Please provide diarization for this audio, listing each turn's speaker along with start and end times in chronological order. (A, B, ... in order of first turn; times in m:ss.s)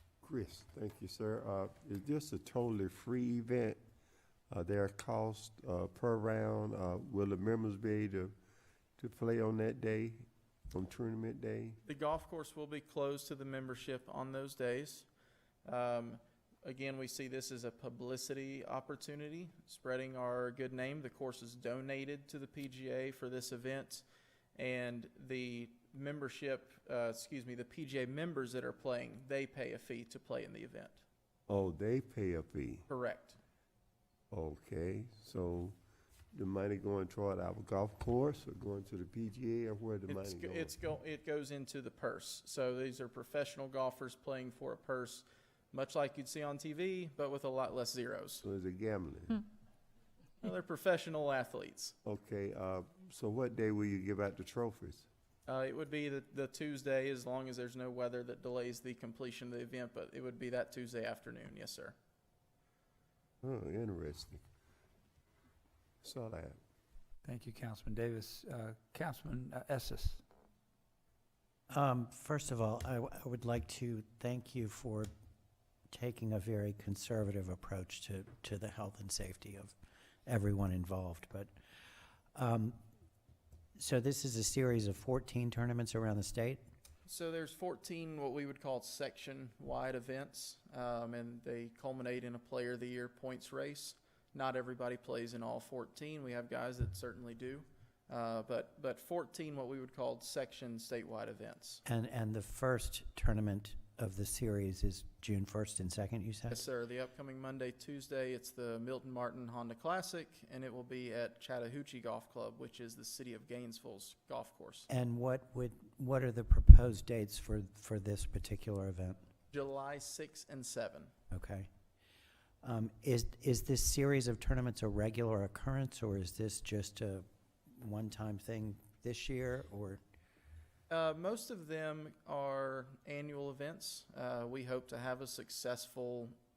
0:00.2-0:03.8 A
0:04.5-0:08.3 A
0:09.0-0:11.8 A
0:11.8-0:15.1 B
0:15.6-0:24.0 B
0:24.6-0:31.0 B
0:31.5-0:32.8 A
0:32.9-0:33.4 B
0:34.3-0:35.8 A
0:36.3-0:40.7 A
0:40.1-0:48.4 B
0:48.4-0:49.4 A
0:50.4-0:52.0 B
0:52.0-0:55.0 A
0:55.5-1:01.9 B
1:03.4-1:04.4 A
1:06.0-1:06.6 A
1:07.2-1:10.2 C
1:11.7-1:15.1 D
1:15.9-1:19.7 D
1:20.2-1:21.5 D
1:22.3-1:22.8 D
1:23.8-1:26.6 D
1:27.1-1:41.8 B
1:41.8-1:46.6 D
1:46.5-1:54.9 B
1:54.9-1:59.2 D
1:59.5-2:01.1 B
2:01.3-2:01.7 D
2:02.6-2:10.0 D
2:10.9-2:16.4 B